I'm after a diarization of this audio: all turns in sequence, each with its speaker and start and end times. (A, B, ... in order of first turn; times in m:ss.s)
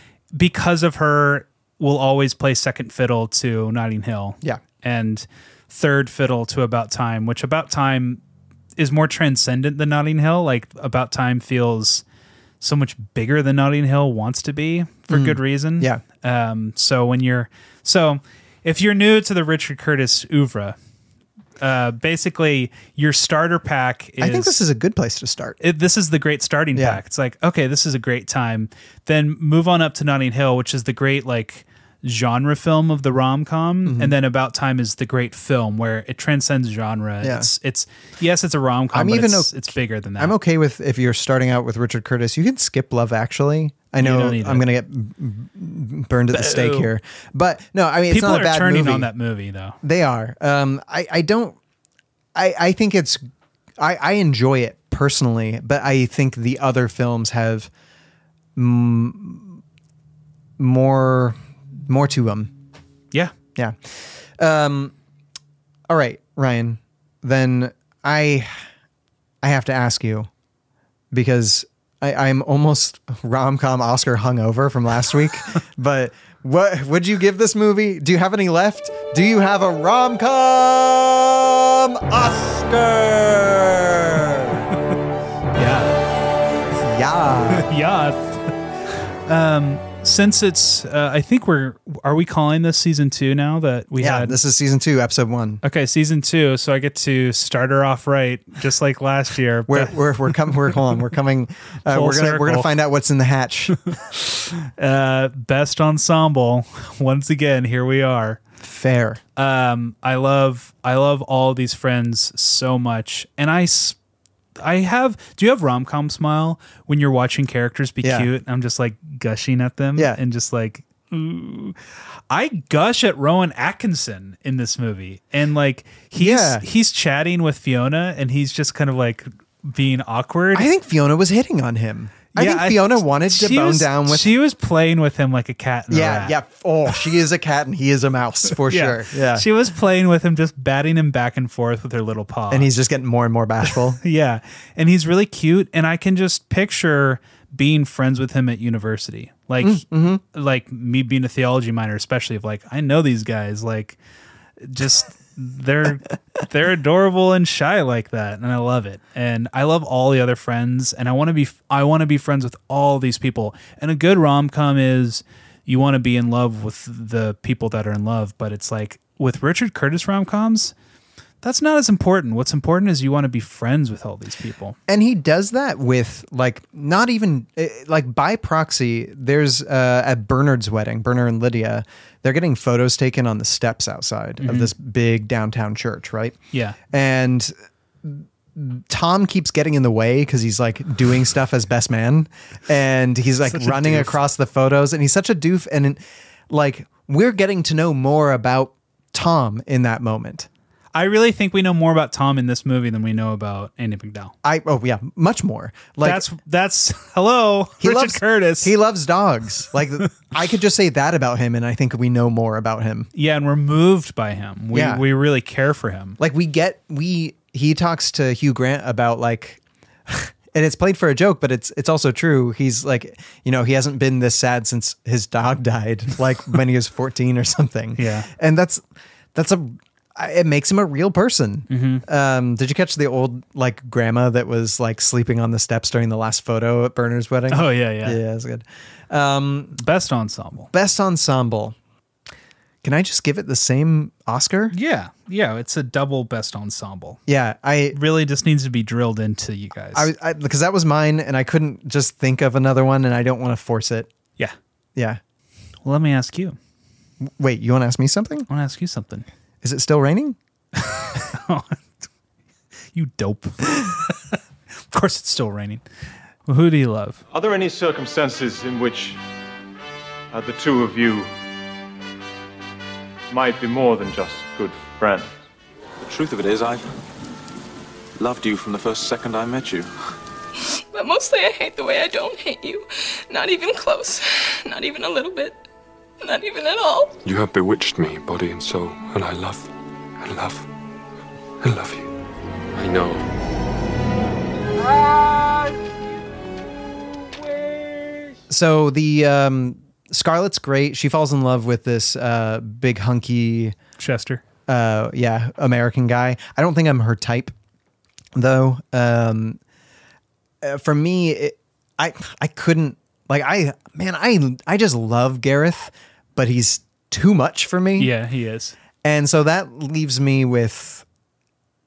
0:00.3-0:08.2 A
0:08.8-0:12.0 A
0:12.6-0:20.8 A
0:15.1-0:16.0 B
0:21.6-0:24.6 A
0:24.2-0:25.6 B
0:25.6-0:40.4 A
0:26.8-0:27.0 B
0:33.9-0:34.1 B
0:37.2-0:37.5 B
0:38.9-0:49.1 B
0:44.0-0:44.6 A
0:46.3-0:46.9 A
0:48.1-0:49.8 A
0:49.8-0:51.6 B
0:52.4-0:53.2 B
0:53.8-0:57.7 B
0:58.6-0:59.6 B
1:00.6-1:02.5 B
1:04.4-1:04.9 B
1:05.9-1:08.6 B
1:09.4-1:10.3 B
1:11.1-1:24.7 B
1:25.6-1:26.0 A
1:26.8-1:27.7 B
1:27.6-1:28.5 A
1:29.3-1:34.4 A
1:34.0-1:35.6 B
1:35.6-1:40.8 A
1:39.7-1:43.8 B
1:41.9-1:42.7 A
1:44.6-1:48.4 A
1:48.6-1:49.2 B
1:49.4-1:54.0 A
1:54.6-2:01.8 A
1:58.0-1:58.3 B
2:02.3-2:10.7 A
2:06.2-2:06.6 B
2:10.5-2:14.3 B
2:12.3-2:16.4 A
2:15.9-2:19.5 B
2:18.7-2:22.7 A
2:22.5-2:24.0 B
2:23.7-2:34.0 A
2:29.6-2:30.2 B
2:34.6-2:50.7 A
2:51.4-2:54.8 A
2:54.9-3:06.4 B
3:04.4-3:04.7 A
3:06.9-3:20.5 B
3:13.5-3:14.2 A
3:21.0-3:24.3 A
3:24.4-3:26.2 B
3:26.0-3:28.7 A
3:27.8-3:33.1 B
3:33.1-3:36.2 A
3:34.7-3:35.0 B
3:36.2-3:48.8 B
3:48.0-3:48.3 A
3:49.3-3:59.8 B
3:51.7-3:52.0 A
3:57.5-3:58.2 A
3:59.8-4:00.7 A
4:00.7-4:01.8 B
4:02.8-4:04.8 B
4:04.7-4:07.2 A
4:07.3-4:08.0 B
4:07.9-4:10.1 A
4:09.9-4:14.1 B
4:15.8-4:16.6 A
4:17.2-4:18.5 B
4:18.5-4:19.3 A
4:19.6-4:20.4 B
4:20.8-4:21.8 A
4:22.9-4:24.4 A
4:24.9-4:25.8 A
4:26.5-4:27.2 A
4:27.3-4:29.2 C
4:30.3-4:31.3 C
4:33.3-4:35.3 C
4:36.0-4:36.8 D
4:38.2-4:39.9 D
4:40.6-4:45.6 E
4:46.2-4:47.2 E
4:47.2-4:50.7 F
4:51.6-4:52.1 F
4:52.7-4:53.3 F
4:58.5-5:03.8 B
5:04.0-5:04.4 A
5:04.7-5:07.5 B
5:08.4-5:09.6 B
5:10.6-5:18.1 B
5:18.0-5:18.8 A
5:19.0-5:21.0 B